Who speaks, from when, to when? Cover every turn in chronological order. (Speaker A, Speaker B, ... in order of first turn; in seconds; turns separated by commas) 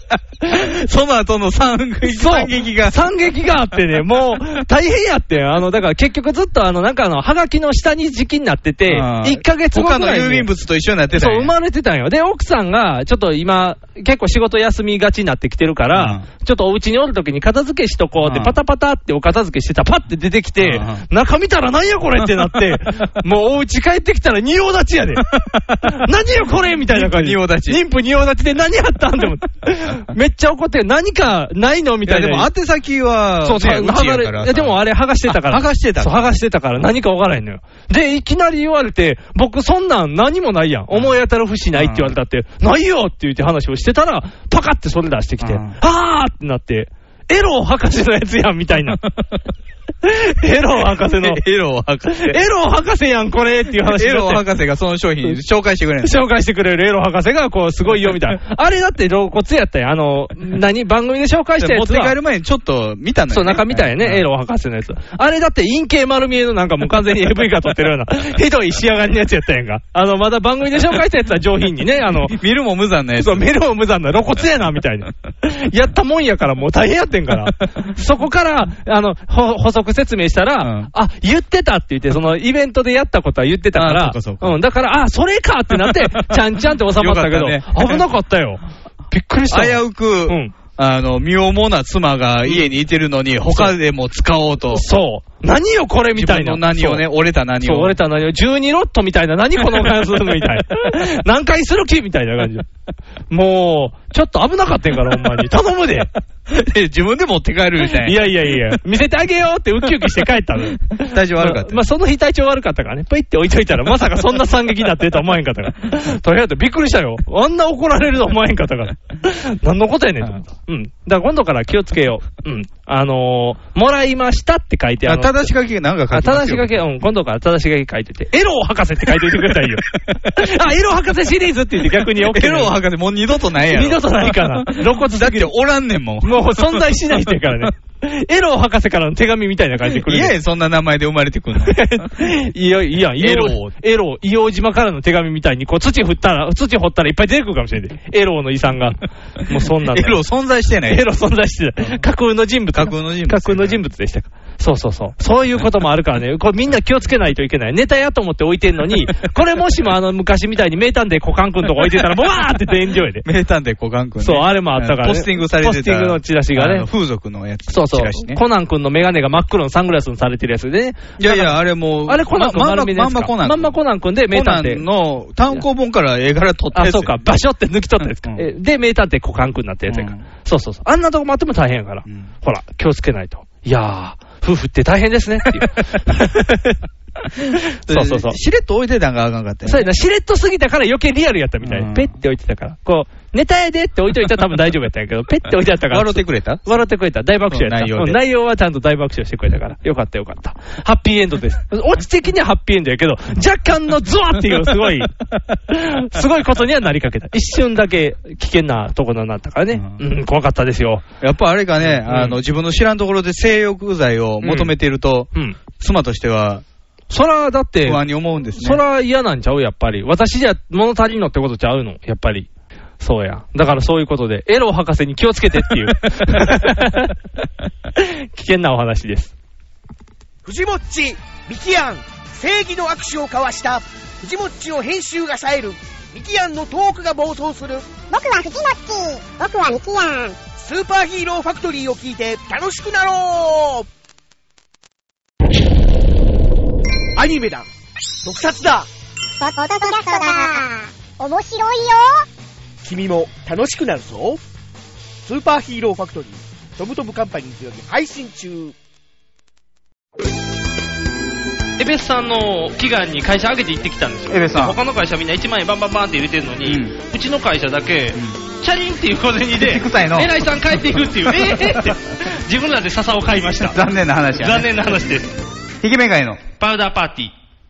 Speaker A: 0.5-3.0, Speaker B: 2.0-10.5, Speaker A: 8.8-11.5, Speaker B: 11.1-25.3, Speaker A: 15.9-16.2, Speaker A: 18.2-18.6, Speaker A: 20.6-21.1, Speaker A: 25.2-25.9, Speaker B: 25.9-32.5, Speaker A: 26.8-27.8, Speaker A: 32.0-36.4, Speaker B: 33.4-49.0, Speaker A: 40.9-41.2, Speaker A: 41.7-42.1, Speaker A: 45.4-45.8, Speaker A: 49.0-49.4, Speaker B: 50.0-51.4, Speaker A: 50.8-52.4, Speaker B: 52.1-54.4, Speaker A: 53.8-56.2, Speaker B: 56.0-62.1, Speaker A: 61.6-64.2, Speaker B: 63.3-72.3, Speaker A: 72.1-73.5, Speaker B: 73.2-90.5, Speaker A: 80.6-80.9, Speaker A: 83.7-84.6, Speaker A: 85.7-88.0, Speaker A: 89.5-94.8, Speaker B: 94.7-97.0, Speaker A: 96.2-98.0, Speaker B: 97.6-102.7, Speaker B: 103.3-106.1, Speaker A: 106.5-108.8, Speaker B: 107.8-125.5, Speaker A: 111.0-111.8, Speaker A: 125.0-126.8, Speaker B: 126.1-132.7, Speaker A: 129.1-130.4, Speaker A: 132.2-137.7, Speaker B: 133.7-135.5, Speaker B: 136.2-140.3, Speaker A: 139.8-142.1, Speaker B: 141.7-150.2, Speaker A: 143.2-143.7, Speaker A: 149.9-151.0, Speaker B: 150.9-163.2, Speaker A: 152.7-153.8, Speaker A: 163.2-168.4, Speaker B: 164.2-166.9, Speaker B: 167.7-174.8, Speaker A: 171.2-173.8, Speaker A: 174.3-177.2, Speaker B: 176.7-186.8, Speaker A: 179.9-180.2, Speaker A: 182.1-182.3, Speaker B: 187.9-188.3, Speaker A: 187.9-189.9, Speaker B: 189.6-205.1, Speaker A: 191.6-192.1, Speaker A: 195.9-196.7, Speaker A: 197.5-198.2, Speaker B: 205.7-211.0, Speaker A: 209.7-210.0, Speaker A: 211.2-216.6, Speaker B: 211.8-212.4, Speaker B: 214.4-214.7, Speaker B: 217.1-218.0, Speaker A: 217.8-218.8, Speaker B: 218.6-222.5, Speaker B: 223.0-227.1, Speaker B: 228.0-229.3, Speaker C: 230.4-237.9, Speaker D: 238.1-240.3, Speaker C: 240.6-243.9, Speaker C: 247.2-247.7, Speaker C: 248.2-248.9, Speaker D: 249.4-252.2, Speaker C: 252.8-254.4, Speaker C: 255.2-258.7, Speaker B: 261.8-273.8, Speaker A: 264.3-264.8, Speaker A: 266.6-266.9, Speaker A: 269.5-270.3, Speaker A: 271.2-271.9, Speaker A: 273.6-274.7, Speaker B: 274.4-275.4, Speaker A: 275.8-276.4, Speaker B: 276.6-277.3